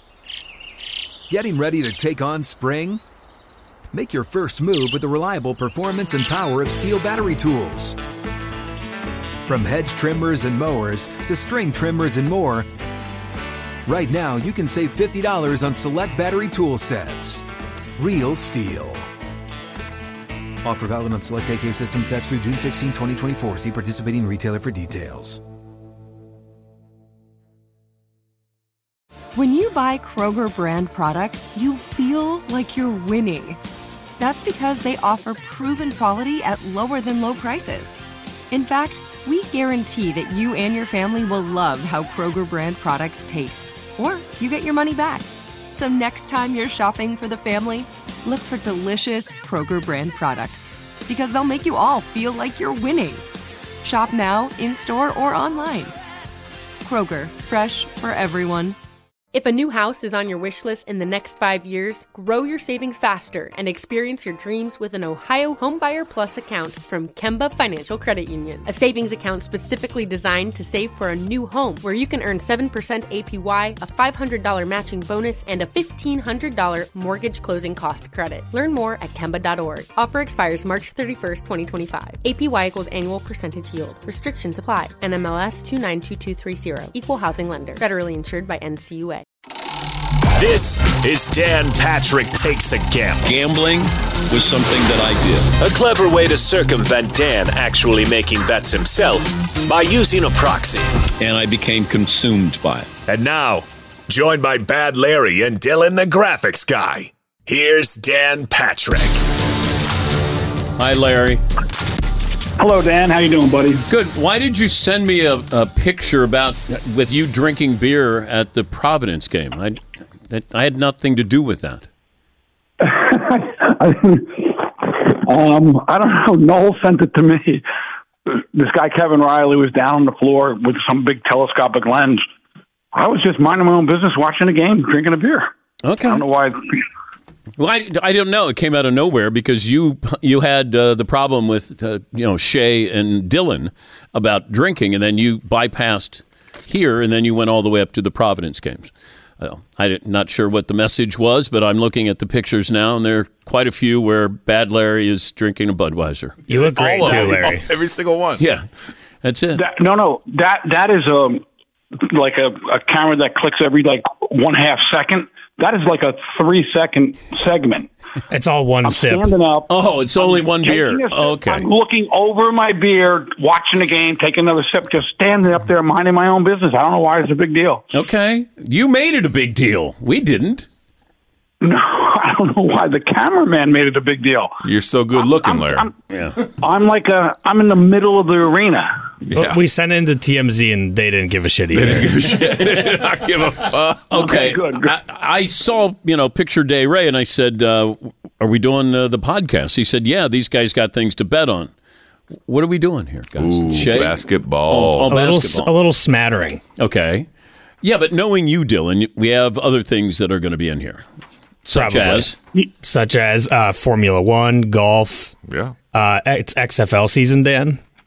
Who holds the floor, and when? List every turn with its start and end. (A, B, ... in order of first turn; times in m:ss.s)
0:01.3-0:03.0 A
0:03.9-0:08.0 A
0:09.5-0:12.7 A
0:13.9-0:17.4 A
0:18.0-0:19.1 A
0:20.6-0:25.4 A
0:29.3-0:33.6 B
0:34.2-0:38.0 B
0:38.5-0:53.2 B
0:53.8-0:56.0 B
0:56.8-0:58.8 B
0:59.3-1:29.2 C
1:30.4-1:33.3 D
1:33.2-1:35.5 E
1:35.6-1:40.9 D
1:41.2-1:42.9 E
1:43.1-1:49.2 D
1:50.8-1:51.4 E
1:52.6-1:53.8 F
1:53.9-2:01.9 E
2:02.8-2:07.6 F
2:08.3-2:12.2 F
2:12.9-2:15.5 F
2:15.8-2:16.2 E
2:16.0-2:16.8 F
2:17.6-2:36.4 E
2:36.5-2:38.4 G
2:36.5-2:37.6 H
2:38.4-2:38.6 E
2:39.2-2:39.6 E
2:39.6-2:41.4 F
2:42.0-2:47.9 F
2:48.3-2:49.3 H
2:48.8-2:57.9 F
2:49.7-2:51.7 E
2:57.9-3:00.7 E
3:01.6-3:04.6 F
3:04.6-3:05.9 G
3:05.4-3:05.9 F
3:06.1-3:06.4 E
3:06.5-3:09.0 F
3:09.3-3:09.6 G
3:09.3-3:12.2 H
3:11.7-3:14.1 G
3:12.7-3:13.0 E
3:14.1-3:21.7 E
3:14.1-3:14.9 F
3:22.5-3:25.7 E
3:23.4-3:25.1 G
3:25.1-3:26.6 H
3:26.8-3:27.3 E
3:27.8-3:31.0 E
3:31.6-3:32.4 E
3:31.7-3:35.4 H
3:35.5-3:35.8 G
3:35.9-3:37.8 H